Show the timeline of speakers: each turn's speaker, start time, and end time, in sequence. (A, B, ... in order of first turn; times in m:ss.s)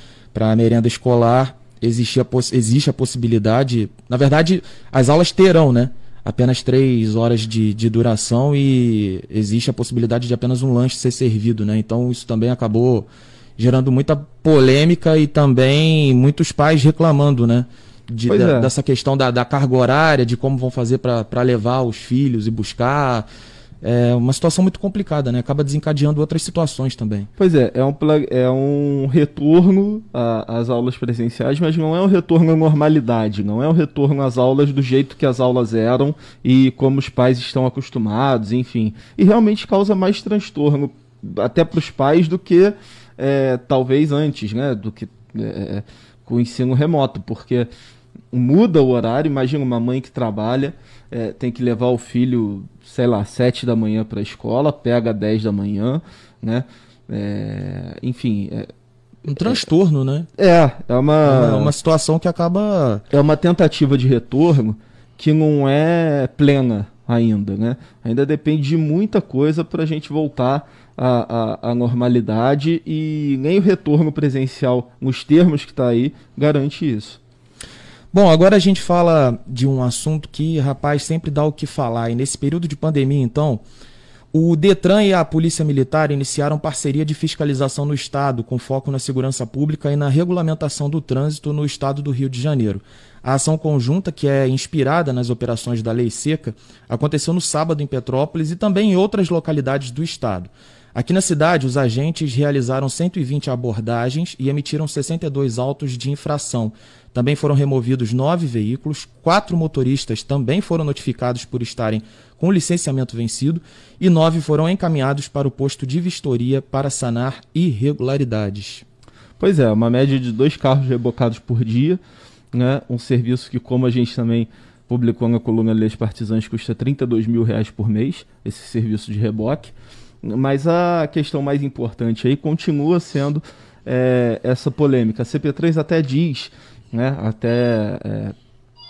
0:00.3-0:23.2 A
0:18.3-0:18.7 B
0:23.8-0:27.3 A
0:27.4-0:47.7 B
0:48.3-0:58.7 B
0:59.2-1:00.3 A
0:59.4-0:59.7 B
1:00.4-1:01.7 B
1:01.2-1:03.0 A
1:03.1-1:17.2 B
1:18.1-1:23.6 A
1:24.3-1:58.8 A
1:59.4-2:02.0 B
2:02.5-2:18.4 B